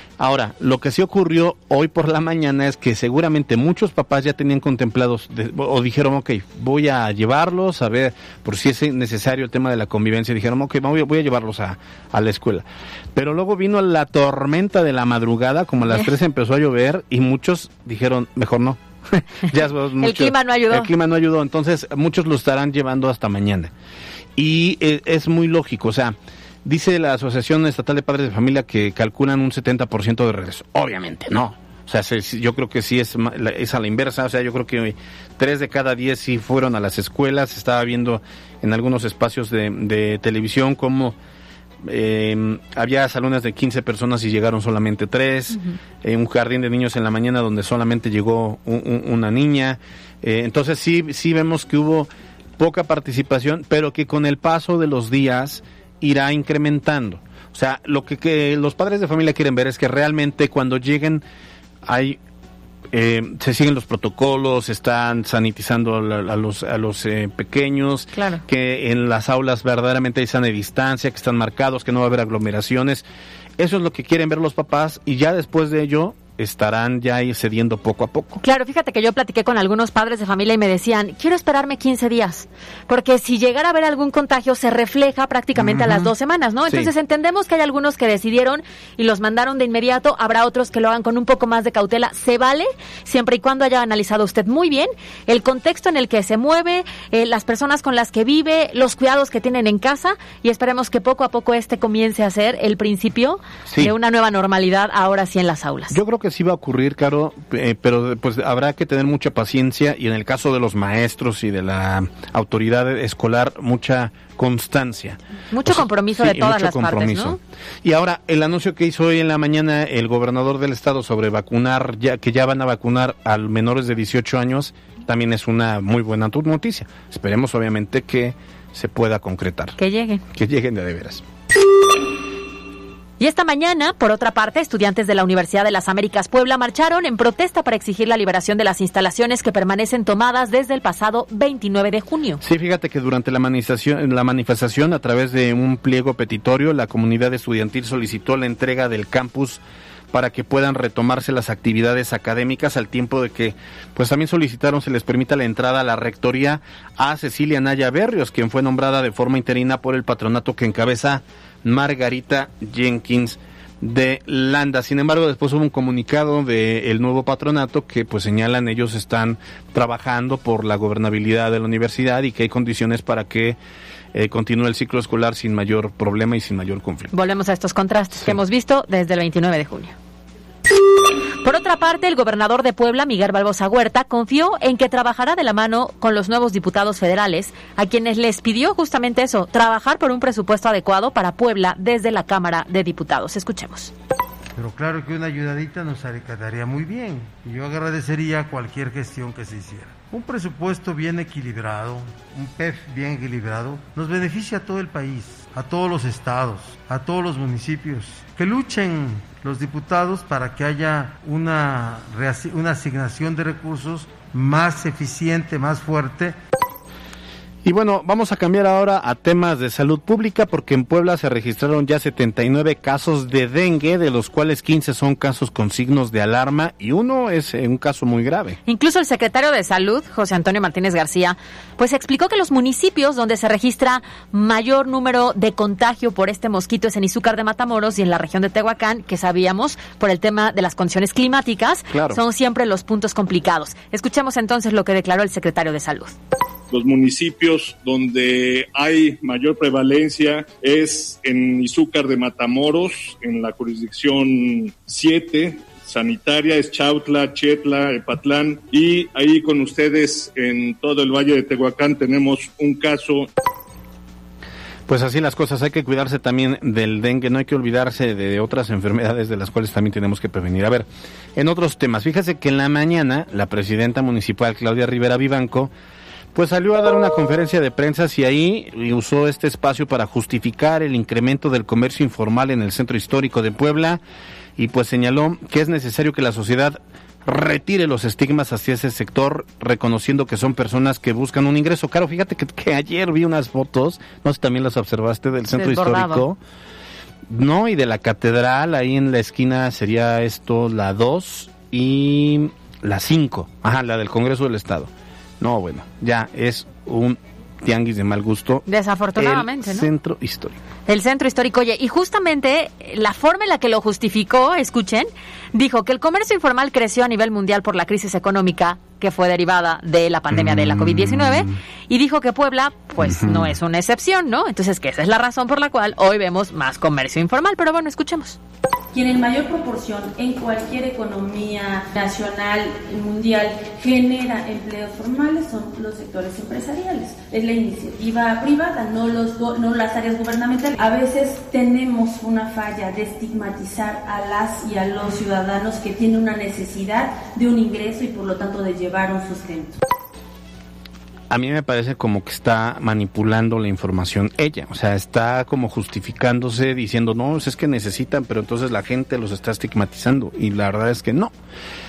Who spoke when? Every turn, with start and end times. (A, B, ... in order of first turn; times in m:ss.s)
0:00.2-0:23.7 A
0:20.0-0:20.9 B
0:24.4-0:41.2 A
0:41.8-1:01.2 A
1:01.8-1:02.2 A
1:02.9-1:13.0 A
1:08.1-1:08.4 B
1:13.6-1:18.4 A
1:18.4-1:46.0 B
1:25.5-1:26.1 A
1:43.7-1:43.9 A
1:45.9-2:09.8 A
1:55.5-1:57.4 B
2:09.8-2:10.2 B
2:10.3-2:11.2 A
2:13.2-2:22.4 B
2:22.4-2:29.6 A
2:30.1-2:53.6 A
2:54.1-2:57.1 A
2:57.1-2:59.9 B
3:01.4-3:13.9 B
3:14.6-3:36.4 C
3:37.6-3:48.6 A
3:48.6-4:06.2 B
4:01.9-4:02.2 A
4:06.7-4:23.3 D
4:24.9-4:35.7 A
4:36.3-4:44.0 A
4:44.6-4:56.4 A
4:55.5-4:56.2 B
4:57.3-5:08.6 A
5:08.6-5:09.9 B
5:09.2-5:10.6 A
5:10.9-5:28.4 B
5:20.3-5:21.6 A
5:23.0-5:23.5 A
5:28.9-5:49.8 E
5:51.3-6:01.3 A